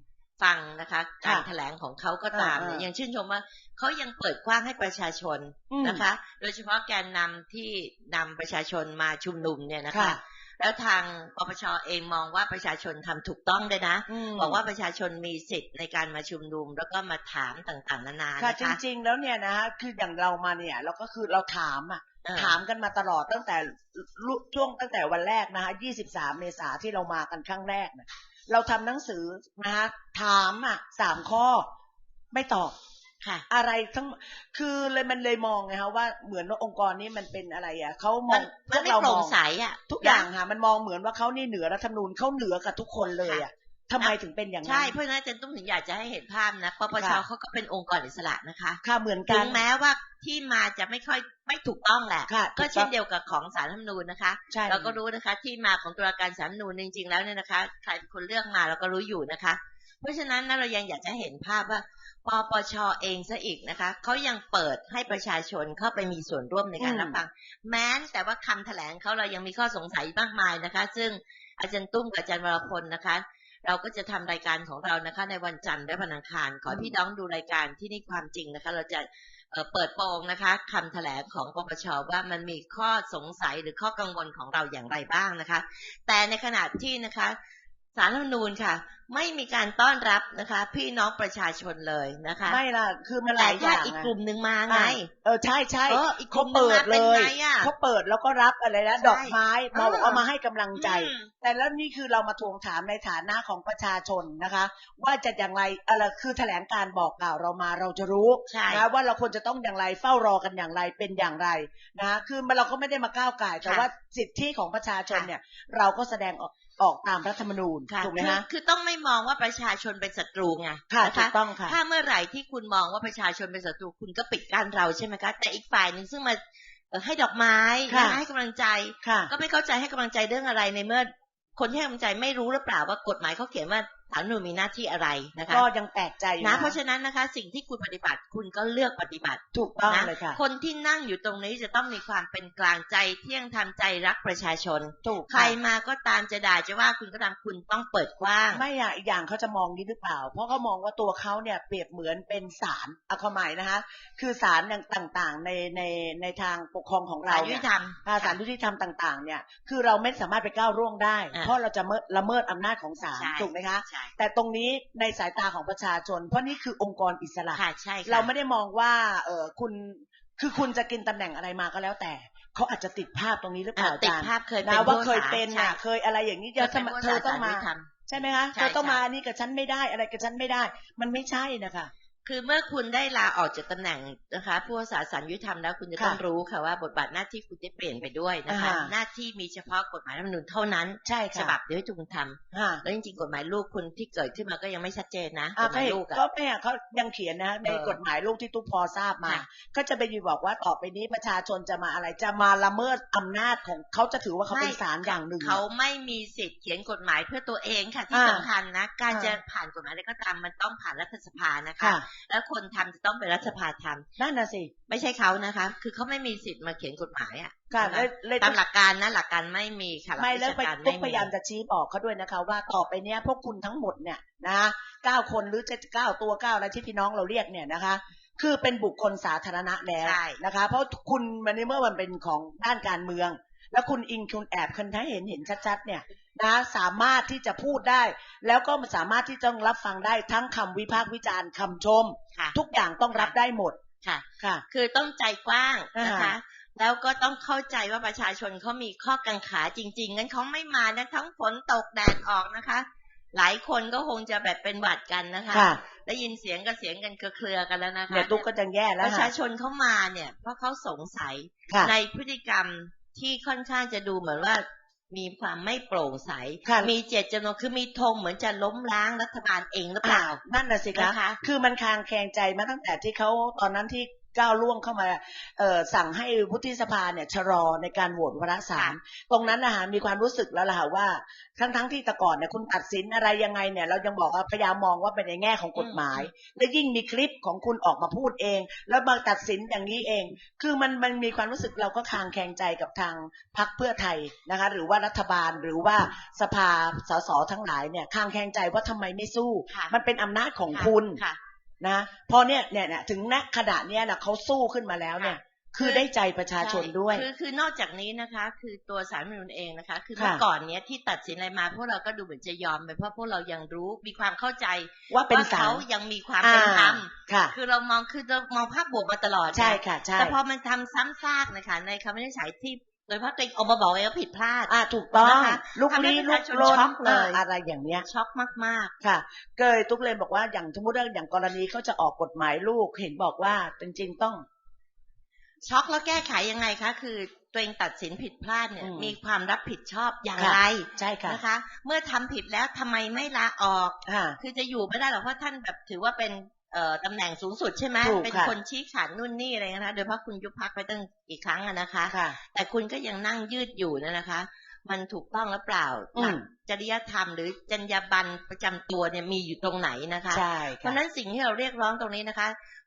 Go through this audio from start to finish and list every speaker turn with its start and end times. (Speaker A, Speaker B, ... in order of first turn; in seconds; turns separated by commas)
Speaker A: 0.4-18.8, Speaker B: 1.2-1.5, Speaker B: 2.3-2.9, Speaker B: 5.7-6.1, Speaker B: 9.9-10.2, Speaker B: 14.1-14.6, Speaker B: 18.4-31.7, Speaker A: 22.2-22.6, Speaker B: 32.3-32.7, Speaker B: 33.5-39.4, Speaker A: 38.3-40.3, Speaker B: 39.9-44.9, Speaker A: 44.0-87.4, Speaker B: 47.0-47.2, Speaker B: 48.8-49.6, Speaker B: 52.3-52.9, Speaker B: 54.5-55.0, Speaker B: 66.8-67.2, Speaker B: 76.7-76.9, Speaker A: 87.9-92.6, Speaker B: 92.4-94.1, Speaker A: 93.3-95.1, Speaker B: 94.7-118.4, Speaker A: 95.9-97.7, Speaker A: 99.0-100.2, Speaker A: 100.7-101.3, Speaker A: 108.5-108.8, Speaker A: 113.6-113.9, Speaker A: 117.9-126.4, Speaker B: 120.9-121.8, Speaker A: 126.9-135.7, Speaker B: 127.9-128.2, Speaker B: 129.0-129.3, Speaker B: 135.5-136.8, Speaker A: 136.4-148.6, Speaker B: 139.5-140.4, Speaker B: 145.0-145.6, Speaker B: 148.5-181.9, Speaker A: 157.2-158.4, Speaker A: 163.1-164.1, Speaker A: 167.5-168.3, Speaker A: 173.8-175.8, Speaker A: 176.6-179.0, Speaker A: 182.2-196.2, Speaker B: 188.5-188.9, Speaker B: 191.0-191.6, Speaker B: 192.5-192.8, Speaker B: 195.6-205.6, Speaker A: 197.6-198.0, Speaker A: 204.5-214.1, Speaker B: 208.1-208.5, Speaker B: 209.1-209.4, Speaker B: 211.8-212.0, Speaker B: 214.2-214.7, Speaker A: 214.9-221.3, Speaker B: 217.7-218.6, Speaker B: 220.2-243.8, Speaker A: 230.0-230.4, Speaker A: 244.0-258.4, Speaker B: 245.9-246.3, Speaker B: 255.5-255.8, Speaker B: 258.1-259.3, Speaker A: 259.0-270.4, Speaker B: 261.7-261.9, Speaker B: 266.6-266.9, Speaker B: 270.0-301.2, Speaker A: 270.9-271.4, Speaker A: 285.8-286.3, Speaker A: 299.7-299.9, Speaker A: 300.7-301.4, Speaker B: 301.8-307.3, Speaker A: 305.2-306.1, Speaker A: 306.6-327.4, Speaker B: 310.1-310.4, Speaker B: 315.1-315.8, Speaker B: 316.4-317.5, Speaker B: 319.5-320.4, Speaker B: 324.7-328.1, Speaker A: 328.0-328.9, Speaker B: 329.0-334.4, Speaker A: 335.6-362.6, Speaker B: 338.8-339.1, Speaker B: 340.4-341.4, Speaker B: 344.1-344.4, Speaker B: 348.0-348.5, Speaker B: 352.1-352.4, Speaker B: 356.1-356.4, Speaker B: 360.3-361.0